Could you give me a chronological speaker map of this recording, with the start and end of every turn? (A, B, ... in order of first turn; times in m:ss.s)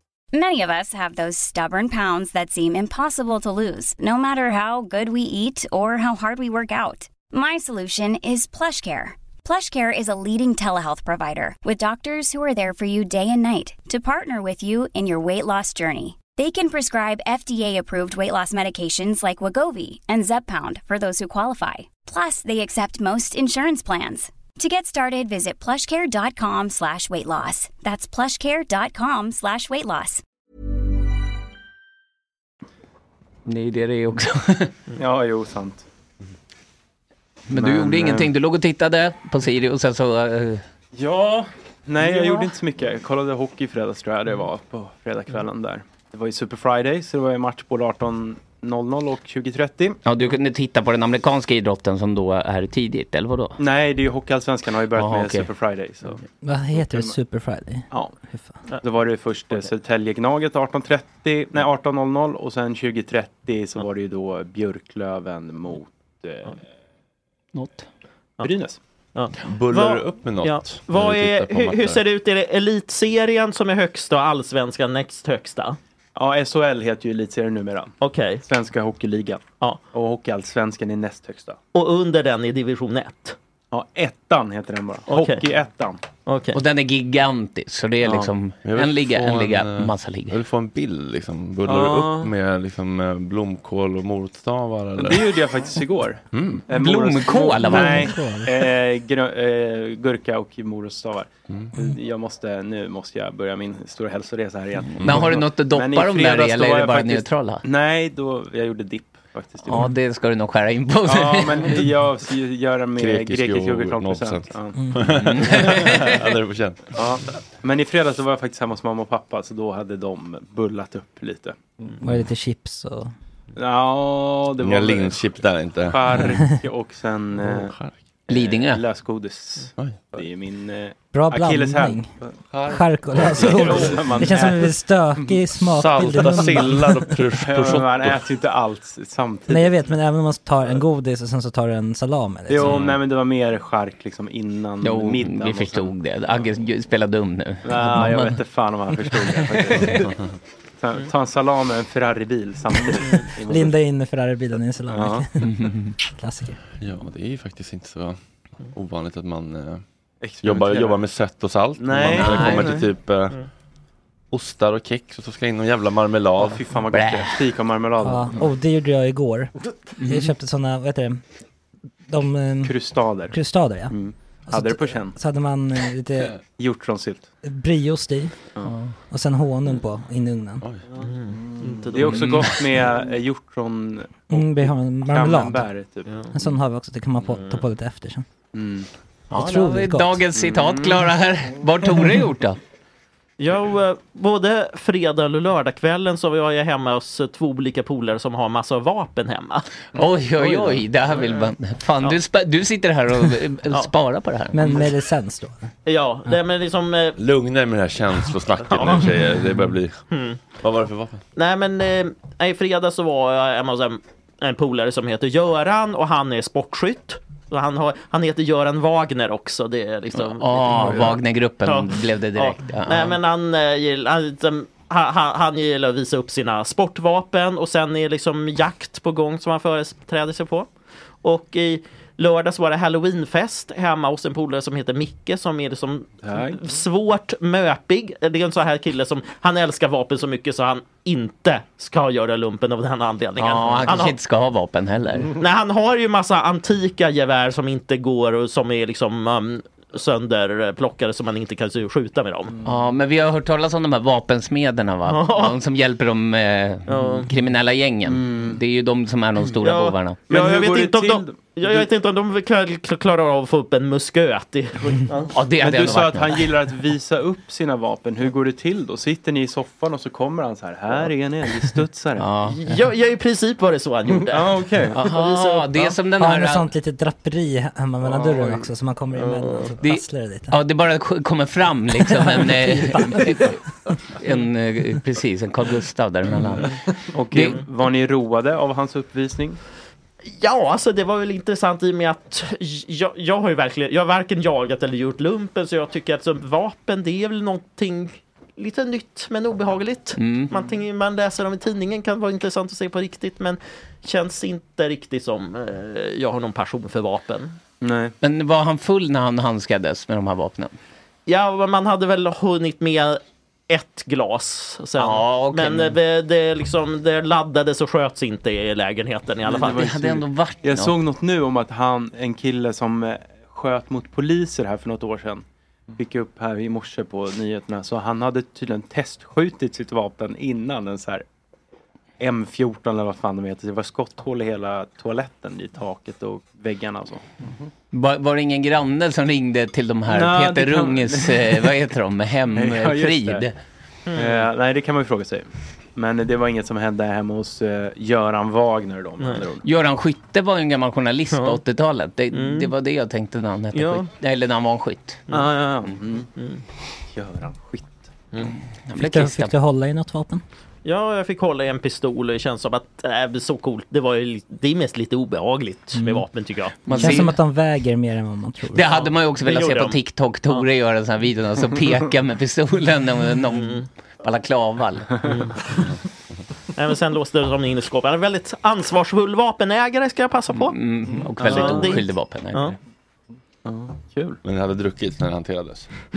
0:00.3-0:30.2 A
0:33.5-0:34.7 B
0:35.0-0:35.8 C
0:37.5-0:40.6 B
0:37.5-0:38.3 C
0:40.9-0:50.0 C
0:42.1-0:42.4 D
0:50.0-0:53.6 B
0:53.6-0:56.2 C
0:54.9-0:55.5 B
0:56.4-0:58.6 E
0:56.7-0:57.2 C
0:57.9-0:58.2 C
0:58.8-1:06.6 C
1:07.5-1:07.9 B
1:08.4-1:08.8 C
1:09.1-1:15.8 D
1:09.4-1:12.0 F
1:16.1-1:21.6 C
1:18.0-1:18.4 D
1:21.7-1:23.4 D
1:23.7-1:26.0 C
1:25.1-1:25.4 D
1:26.3-1:26.6 D
1:26.5-1:30.4 B
1:28.0-1:28.3 C
1:28.6-1:35.4 F
1:31.6-1:32.3 C
1:35.0-1:49.8 C
1:36.3-1:36.6 F
1:36.7-1:38.1 B
1:37.6-1:38.6 E
1:44.9-1:47.6 B
1:45.0-1:45.3 F
1:49.6-1:51.8 B
1:51.1-1:54.8 C
1:53.0-1:57.0 F
1:54.7-1:55.0 E
1:55.1-1:56.2 B
1:56.9-2:01.6 C
2:02.0-2:03.1 E
2:03.6-2:07.7 C
2:04.6-2:06.4 F
2:07.4-2:08.0 F
2:08.3-2:12.3 C
2:08.3-2:08.8 B
2:09.8-2:10.1 F
2:11.1-2:17.2 E
2:12.5-2:13.8 F
2:13.2-2:15.4 C
2:15.7-2:18.2 F
2:16.0-2:16.5 C
2:17.4-2:20.0 C
2:19.5-2:22.8 E
2:22.5-2:25.9 C
2:22.6-2:22.9 B
2:24.8-2:28.4 B
2:27.6-2:30.1 C
2:30.8-2:33.8 C
2:33.4-2:35.6 E
2:34.9-2:35.3 C
2:35.4-2:35.9 B
2:36.2-2:36.6 E
2:36.8-2:38.2 F
2:38.7-2:39.8 F
2:40.2-2:41.0 C
2:40.4-2:43.4 F
2:41.8-2:42.9 C
2:42.1-2:42.8 B
2:44.3-2:46.6 F
2:46.4-2:48.5 C
2:46.9-2:47.4 B
2:48.0-2:51.2 E
2:50.0-2:50.3 B
2:52.1-2:56.4 E
2:52.6-2:53.4 C
2:53.9-2:55.2 C
2:56.5-2:57.3 C
2:57.4-3:00.6 E
2:58.6-2:59.0 B
3:00.9-3:02.5 D
3:01.9-3:06.3 C
3:02.2-3:02.5 B
3:04.3-3:08.3 E
3:06.1-3:06.3 D
3:08.5-3:08.9 C
3:09.3-3:12.6 B
3:09.3-3:10.2 E
3:10.4-3:11.0 C
3:13.4-3:19.6 D
3:19.9-3:24.8 B
3:20.4-3:20.8 D
3:24.5-3:25.7 E
3:25.8-3:27.2 D
3:27.2-3:30.0 F
3:28.7-3:29.1 D
3:30.1-3:30.4 D
3:30.6-3:31.2 F
3:31.4-3:50.7 D
3:40.1-3:43.2 B
3:51.2-4:04.2 D
3:56.2-3:56.6 C
4:03.4-4:05.3 B
4:05.4-4:12.6 D
4:12.6-4:20.2 B
4:15.1-4:15.6 D
4:16.9-4:17.3 D
4:18.1-4:18.6 C
4:19.5-4:25.3 D
4:20.3-4:21.8 C
4:25.3-4:26.5 B
4:25.5-4:32.3 C
4:32.2-4:32.6 B
4:32.4-4:35.9 D
4:34.3-4:35.0 C
4:34.9-4:36.6 B
4:36.1-4:40.6 E
4:38.0-4:38.7 C
4:39.2-4:39.5 C
4:39.8-4:46.8 B
4:42.1-4:43.3 E
4:47.1-4:49.6 C
4:47.3-4:47.6 B
4:50.3-5:07.6 D
5:00.1-5:00.5 B
5:07.8-5:08.1 C
5:08.2-5:10.7 B
5:11.3-5:19.9 D
5:15.0-5:16.0 B
5:19.5-5:25.4 C
5:19.5-5:21.0 B
5:26.0-5:31.2 C
5:32.2-5:37.2 C
5:37.9-5:43.6 B
5:40.1-5:41.6 C
5:42.6-5:43.5 C
5:44.1-5:44.5 D
5:44.1-5:49.6 C
5:49.2-5:49.5 D
5:49.6-5:55.2 B
5:51.3-5:51.6 D
5:52.3-5:52.7 D
5:53.7-5:54.1 D
5:55.3-5:56.3 C
5:57.1-5:58.1 C
5:58.9-5:59.5 B
5:59.0-6:00.4 E
6:00.8-6:07.3 D
6:06.0-6:06.3 E
6:06.9-6:07.4 B
6:06.9-6:09.0 E
6:08.7-6:15.2 B
6:08.9-6:10.6 D
6:13.5-6:13.9 D
6:15.2-6:15.7 D
6:16.8-6:20.8 D
6:20.6-6:22.8 B
6:21.4-6:22.8 D
6:21.4-6:22.0 C
6:23.6-6:24.4 C
6:24.4-6:25.9 F